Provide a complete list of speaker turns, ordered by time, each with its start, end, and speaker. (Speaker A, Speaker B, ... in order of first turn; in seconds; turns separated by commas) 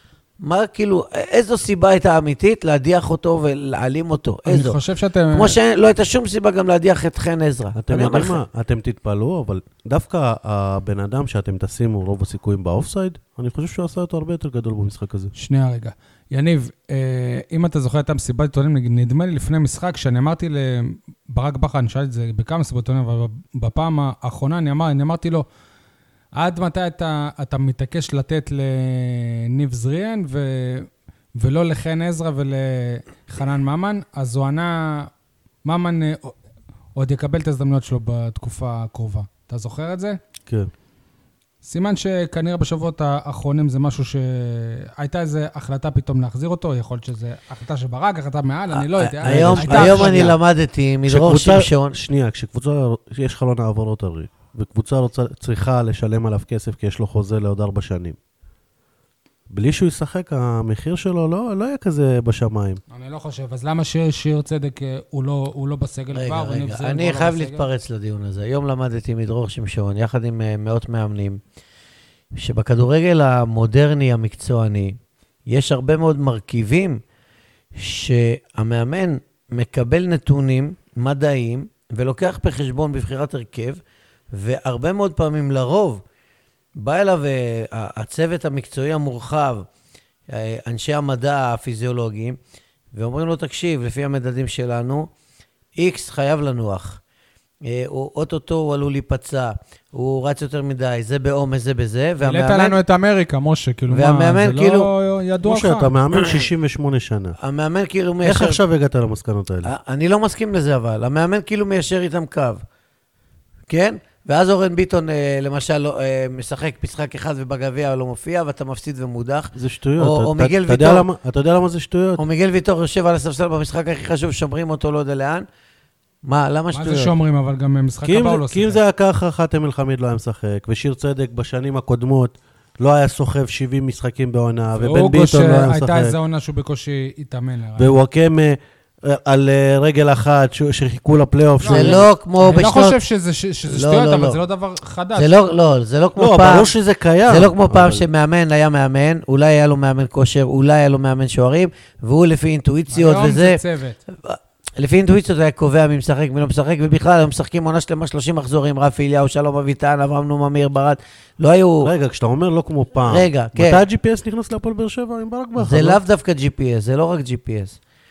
Speaker A: 0.4-4.8, Speaker B: 4.5-5.6, Speaker A: 5.3-8.4, Speaker C: 7.8-15.3, Speaker B: 15.3-25.4, Speaker B: 26.4-35.1, Speaker B: 35.6-36.4, Speaker B: 37.0-40.2, Speaker B: 41.6-50.4, Speaker A: 48.7-51.9, Speaker C: 49.2-50.4, Speaker C: 51.1-58.2, Speaker C: 59.5-62.8, Speaker B: 62.9-67.7, Speaker A: 66.1-71.4, Speaker A: 72.3-77.0, Speaker A: 77.7-83.8, Speaker A: 84.3-86.0, Speaker A: 86.8-89.7, Speaker A: 90.3-92.4, Speaker A: 92.9-95.1, Speaker A: 95.8-97.0, Speaker A: 97.6-102.8, Speaker B: 102.2-105.9, Speaker A: 103.9-104.9, Speaker C: 105.4-107.3, Speaker A: 107.4-108.6, Speaker C: 108.2-109.7, Speaker A: 109.6-112.6, Speaker A: 113.7-121.0, Speaker C: 119.5-122.2, Speaker A: 122.2-125.5, Speaker A: 126.2-127.1, Speaker B: 126.7-128.8, Speaker C: 128.0-136.1, Speaker B: 134.8-137.9, Speaker C: 137.8-142.1, Speaker B: 141.6-145.3, Speaker A: 141.7-143.0, Speaker A: 143.7-144.4, Speaker A: 145.2-146.7, Speaker C: 146.2-148.0, Speaker A: 147.3-153.6, Speaker B: 152.9-154.0, Speaker A: 154.1-161.9, Speaker C: 161.8-166.0, Speaker A: 163.1-163.8, Speaker A: 165.6-167.8